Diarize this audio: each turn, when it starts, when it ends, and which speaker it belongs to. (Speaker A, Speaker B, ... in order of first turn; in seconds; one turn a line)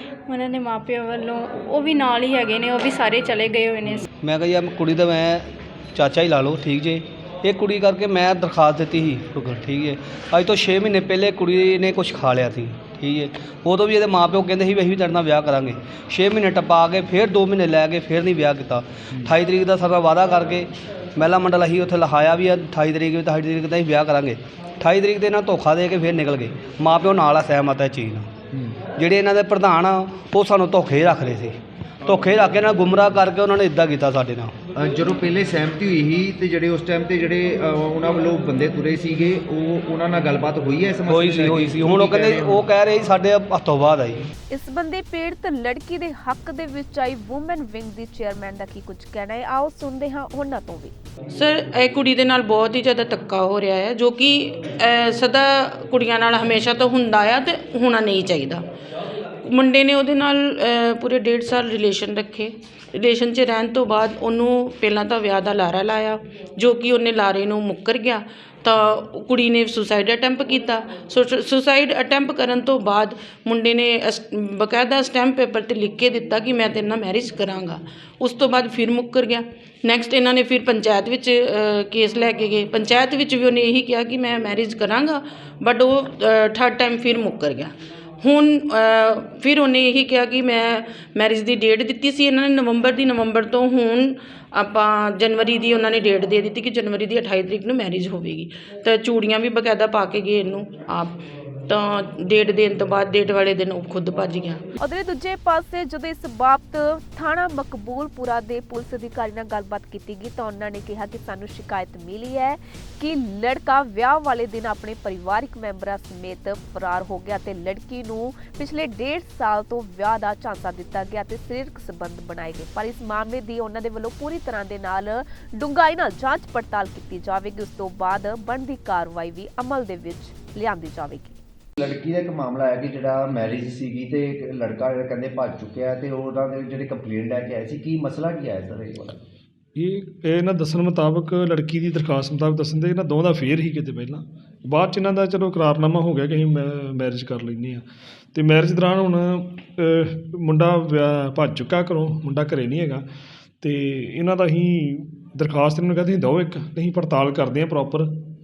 Speaker A: 0.3-4.0
Speaker B: 4.2-28.3
Speaker C: 28.5-28.8
Speaker B: 28.9-34.5
Speaker C: 34.7-42.6
Speaker B: 41.1-44.2
Speaker D: 44.5-50.9
Speaker E: 51.3-58.6
Speaker E: 59.4-104.6
Speaker D: 104.8-131.4
Speaker C: 131.8-139.2
Speaker F: 139.8-153.0
Speaker F: 153.6-158.1